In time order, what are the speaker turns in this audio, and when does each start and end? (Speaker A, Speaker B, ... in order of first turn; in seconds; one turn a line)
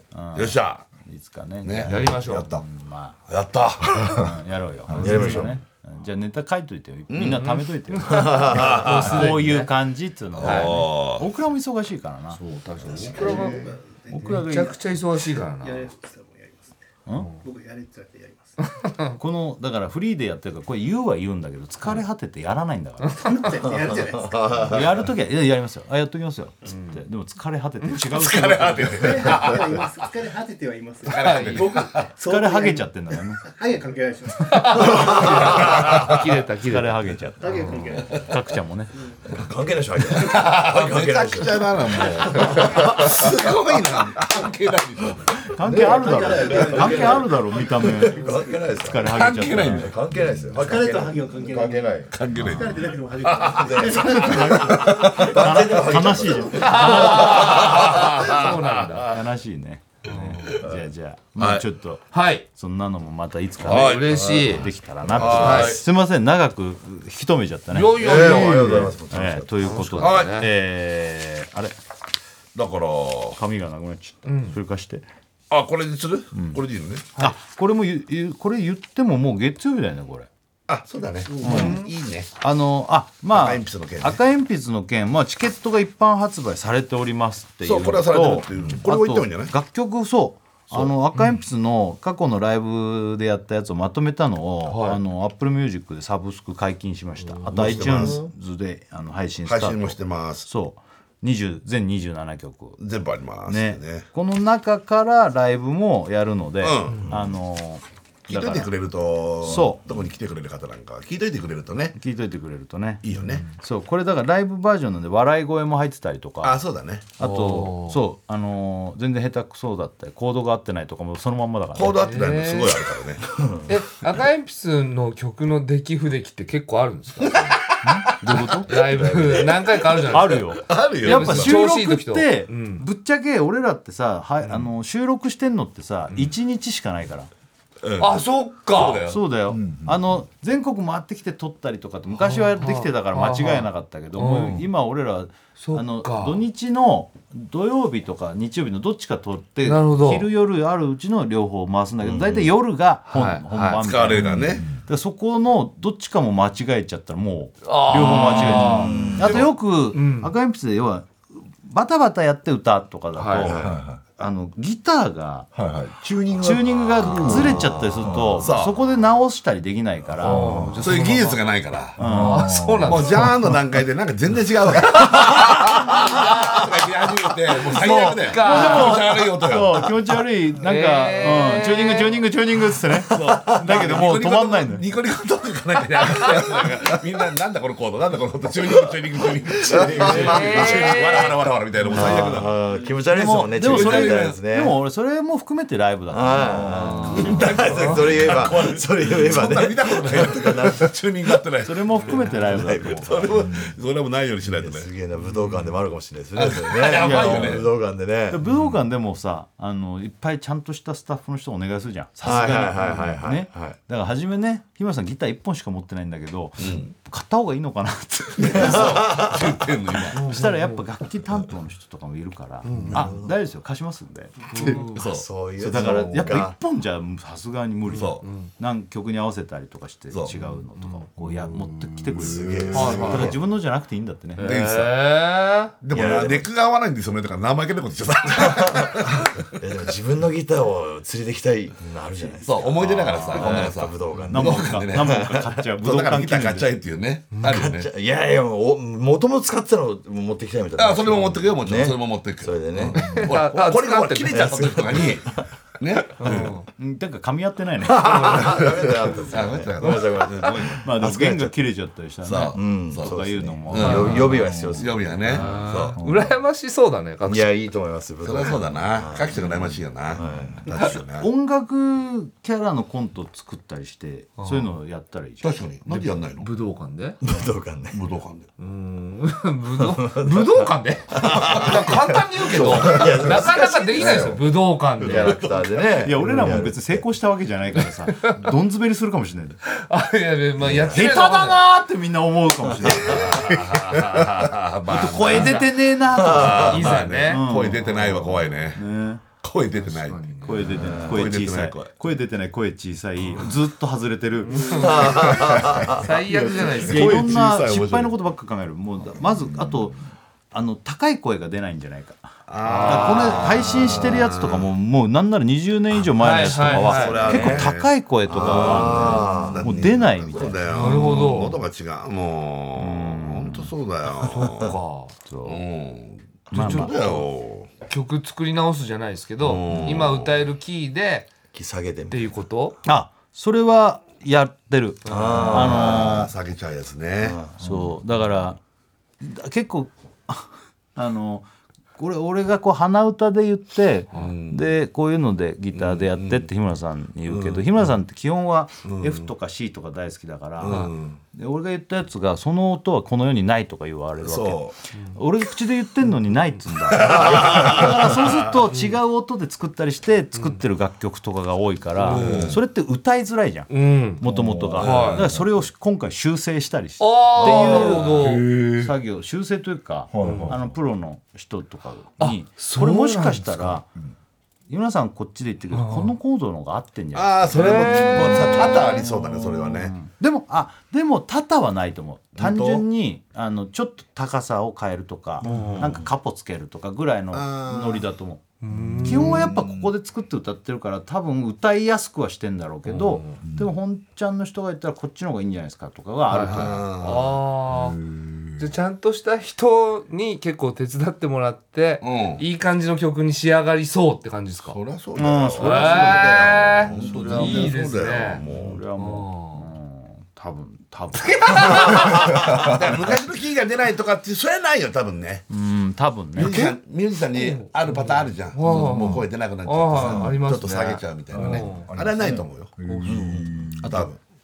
Speaker A: 0.1-3.2
Speaker B: 0.3-0.9
Speaker B: 1.6-2.7
Speaker C: 1.9-2.5
Speaker B: 3.3-4.4
Speaker A: 4.1-12.4
Speaker D: 5.0-5.6
Speaker B: 5.0-5.5
Speaker B: 7.1-7.5
Speaker C: 7.2-9.7
Speaker D: 8.1-8.7
Speaker B: 8.5-9.3
Speaker B: 10.3-11.3
Speaker C: 10.4-10.8
Speaker C: 12.3-13.7
Speaker E: 12.9-14.4
Speaker D: 13.3-13.6
Speaker A: 14.1-14.8
Speaker C: 14.2-15.9
Speaker E: 15.6-16.8
Speaker A: 17.1-17.3
Speaker C: 17.1-17.4
Speaker E: 17.4-18.6
Speaker C: 18.6-19.1
Speaker A: 19.2-23.2
Speaker C: 23.0-23.5
Speaker E: 23.2-24.5
Speaker D: 23.7-25.1
Speaker A: 24.6-29.4
Speaker C: 26.6-27.0
Speaker B: 28.0-30.0
Speaker E: 28.9-35.2
Speaker B: 31.0-32.1
Speaker C: 31.1-31.9
Speaker A: 32.2-33.5
Speaker C: 34.5-38.1
Speaker B: 35.3-36.2
Speaker A: 36.6-38.9
Speaker E: 37.4-38.3
Speaker D: 39.3-43.2
Speaker B: 40.1-45.5
Speaker A: 45.4-49.9
Speaker D: 45.6-52.1
Speaker E: 45.8-47.3
Speaker B: 48.5-50.1
Speaker E: 50.5-55.1
Speaker B: 52.1-55.5
Speaker D: 53.6-56.8
Speaker A: 53.9-57.8
Speaker B: 56.5-59.2
Speaker C: 56.5-59.1
Speaker A: 59.0-71.8
Speaker C: 60.0-60.6
Speaker B: 60.4-60.7
Speaker B: 61.4-61.7
Speaker C: 62.1-62.5
Speaker B: 63.6-65.8
Speaker C: 63.6-64.7
Speaker C: 65.2-65.8
Speaker C: 67.7-69.0
Speaker D: 67.9-69.7
Speaker C: 69.6-70.5
Speaker B: 70.0-70.4
Speaker B: 72.5-73.4
Speaker A: 73.3-75.0
Speaker C: 74.2-74.6
Speaker B: 75.5-77.1
Speaker A: 76.3-76.6
Speaker A: 77.2-80.3
Speaker B: 80.7-82.3
Speaker E: 81.3-81.8
Speaker A: 81.4-81.8
Speaker C: 81.4-81.9
Speaker A: 82.4-102.8
Speaker B: 83.3-84.2
Speaker B: 87.6-89.5
Speaker C: 91.2-91.4
Speaker C: 94.7-95.0
Speaker C: 97.2-97.7
Speaker B: 97.5-98.3
Speaker D: 97.7-98.0
Speaker B: 99.4-100.5
Speaker B: 102.8-104.1
Speaker A: 103.5-108.7
Speaker B: 106.6-107.1
Speaker B: 108.3-112.0
Speaker A: 109.4-109.9
Speaker A: 112.0-116.6
Speaker B: 113.0-113.5
Speaker B: 116.4-117.1
Speaker A: 117.2-122.1
Speaker C: 117.2-118.0
Speaker B: 121.8-123.2
Speaker C: 122.0-122.8
Speaker D: 123.3-123.7
Speaker C: 123.7-127.7
Speaker B: 127.4-131.7
Speaker A: 127.8-128.8
Speaker C: 128.7-132.8
Speaker D: 129.2-129.5
Speaker A: 130.1-137.3
Speaker B: 137.8-139.2
Speaker C: 138.0-139.0
Speaker A: 139.0-165.5
Speaker F: 139.5-140.2
Speaker C: 142.3-144.7
Speaker C: 145.6-146.4
Speaker C: 149.6-150.3
Speaker D: 152.0-152.5
Speaker C: 153.1-153.8
Speaker B: 153.8-154.8
Speaker F: 154.3-154.8
Speaker C: 157.6-159.2
Speaker D: 158.7-159.4
Speaker B: 159.2-159.5
Speaker C: 159.9-160.3
Speaker C: 163.2-163.5
Speaker D: 163.4-163.8
Speaker F: 163.6-164.0
Speaker F: 165.6-168.5
Speaker A: 166.3-170.7
Speaker B: 166.5-168.8
Speaker C: 170.2-171.4
Speaker F: 170.2-170.8
Speaker B: 170.8-172.0
Speaker A: 172.0-172.6
Speaker F: 172.0-173.8
Speaker C: 172.1-173.4
Speaker B: 172.8-180.0
Speaker C: 175.2-176.7
Speaker C: 177.5-179.0
Speaker A: 178.4-184.8
Speaker C: 180.6-182.2
Speaker B: 183.1-192.6
Speaker D: 183.5-183.8
Speaker D: 188.7-190.9
Speaker C: 190.0-191.3
Speaker D: 191.9-194.8
Speaker A: 192.0-192.4
Speaker A: 193.1-197.6
Speaker B: 193.5-194.4
Speaker D: 196.1-200.9
Speaker C: 196.7-198.4
Speaker B: 197.1-204.9
Speaker A: 201.7-203.2
Speaker C: 202.0-202.3
Speaker D: 202.2-203.5
Speaker D: 204.6-208.4
Speaker C: 205.2-205.7
Speaker B: 206.3-207.7
Speaker A: 206.9-207.7
Speaker A: 208.3-219.2
Speaker D: 212.2-213.8
Speaker B: 216.6-216.9
Speaker B: 218.4-220.3
Speaker D: 218.5-219.5
Speaker C: 220.1-220.8
Speaker A: 220.1-224.4
Speaker C: 222.6-223.1
Speaker D: 222.8-223.4
Speaker C: 224.5-225.0
Speaker B: 224.5-226.4
Speaker D: 224.5-226.6
Speaker A: 225.6-234.6
Speaker B: 227.9-228.2
Speaker C: 227.9-228.5
Speaker C: 230.4-231.0
Speaker F: 231.2-233.0
Speaker D: 232.2-233.4
Speaker C: 232.7-233.4
Speaker B: 234.4-235.0
Speaker C: 234.4-235.8
Speaker B: 235.8-239.6
Speaker D: 235.9-236.5
Speaker D: 238.3-245.7
Speaker B: 242.4-247.9
Speaker C: 243.0-243.7
Speaker A: 244.3-246.7
Speaker C: 247.3-247.6
Speaker D: 247.4-253.4
Speaker B: 250.8-256.7
Speaker C: 252.9-255.2
Speaker D: 254.3-255.3
Speaker C: 256.2-256.6
Speaker A: 256.8-258.6
Speaker D: 257.8-261.5
Speaker B: 258.1-260.8
Speaker C: 259.8-260.5
Speaker A: 260.5-264.5
Speaker B: 262.2-266.0
Speaker D: 262.5-265.4
Speaker C: 263.8-264.4
Speaker F: 264.4-265.0
Speaker C: 265.3-267.6
Speaker A: 265.3-265.7
Speaker F: 266.0-266.3
Speaker D: 267.2-271.0
Speaker B: 268.2-271.3
Speaker C: 269.4-269.7
Speaker A: 270.8-275.6
Speaker C: 274.4-274.7
Speaker B: 275.4-276.5
Speaker C: 275.9-277.2
Speaker D: 277.2-278.1
Speaker B: 277.9-278.5
Speaker C: 278.6-285.5
Speaker D: 279.8-284.4
Speaker B: 281.2-284.4
Speaker D: 285.0-287.1
Speaker B: 285.0-285.7
Speaker A: 286.0-289.6
Speaker C: 286.3-286.6
Speaker C: 288.2-288.4
Speaker C: 289.6-291.6
Speaker B: 290.6-291.2
Speaker A: 290.9-293.4
Speaker B: 292.8-295.6
Speaker C: 292.9-294.5
Speaker A: 294.9-299.2
Speaker C: 295.1-298.6
Speaker D: 296.1-296.7
Speaker B: 296.2-298.8
Speaker B: 299.4-301.9
Speaker C: 299.8-300.8
Speaker A: 300.4-305.3
Speaker D: 300.7-301.3
Speaker C: 304.4-307.3
Speaker D: 304.7-306.1
Speaker B: 306.4-308.1
Speaker A: 306.6-310.0
Speaker A: 310.5-321.5
Speaker B: 312.5-314.7
Speaker C: 312.6-314.2
Speaker C: 316.2-317.7
Speaker B: 316.7-324.7
Speaker D: 317.2-317.5
Speaker D: 318.3-320.6
Speaker C: 320.7-321.6
Speaker A: 322.8-323.7
Speaker C: 324.2-325.2
Speaker A: 325.2-325.6
Speaker B: 325.4-327.7
Speaker C: 326.5-327.3
Speaker A: 326.5-327.0
Speaker C: 327.8-331.3
Speaker B: 329.4-330.4
Speaker D: 331.5-332.4
Speaker C: 332.1-332.8
Speaker A: 332.9-336.3
Speaker C: 335.1-335.7
Speaker D: 335.1-336.3
Speaker B: 335.5-337.4
Speaker D: 337.2-337.7
Speaker A: 337.6-338.6
Speaker A: 339.2-373.9
Speaker B: 344.1-344.7
Speaker B: 345.8-346.5
Speaker B: 347.3-347.8
Speaker B: 348.9-349.3
Speaker B: 350.6-351.2
Speaker B: 354.2-354.8
Speaker B: 356.9-358.6
Speaker C: 358.7-359.0
Speaker C: 360.4-360.6
Speaker C: 362.0-362.6
Speaker B: 362.1-362.6
Speaker C: 363.7-364.2
Speaker F: 364.2-365.7
Speaker C: 364.8-365.3
Speaker B: 364.8-365.3
Speaker C: 367.0-368.5
Speaker B: 367.4-368.1
Speaker F: 367.8-368.9
Speaker F: 370.1-370.8
Speaker C: 370.2-370.6
Speaker C: 372.2-373.4
Speaker F: 373.6-374.1
Speaker A: 374.7-388.4
Speaker C: 375.7-376.1
Speaker B: 377.1-380.0
Speaker F: 377.6-378.4
Speaker B: 382.4-382.9
Speaker C: 385.4-385.9
Speaker B: 385.5-386.0
Speaker B: 387.3-388.1
Speaker C: 388.6-389.6
Speaker F: 388.8-389.2
Speaker A: 389.0-396.9
Speaker B: 389.6-389.8
Speaker C: 392.9-393.4
Speaker C: 396.3-398.0
Speaker B: 396.3-397.4
Speaker F: 397.7-398.7
Speaker C: 398.6-404.8
Speaker B: 402.0-402.4
Speaker B: 404.7-408.9
Speaker A: 405.2-407.6
Speaker C: 405.6-408.4
Speaker D: 407.3-407.7
Speaker A: 408.5-412.4
Speaker C: 409.0-409.7
Speaker B: 411.3-415.5
Speaker A: 415.5-416.8
Speaker B: 416.4-422.9
Speaker C: 417.3-421.9
Speaker F: 418.7-419.2
Speaker F: 419.9-420.4
Speaker F: 421.3-424.2
Speaker D: 422.2-422.5
Speaker C: 422.9-423.2
Speaker D: 423.1-423.5
Speaker B: 423.8-424.2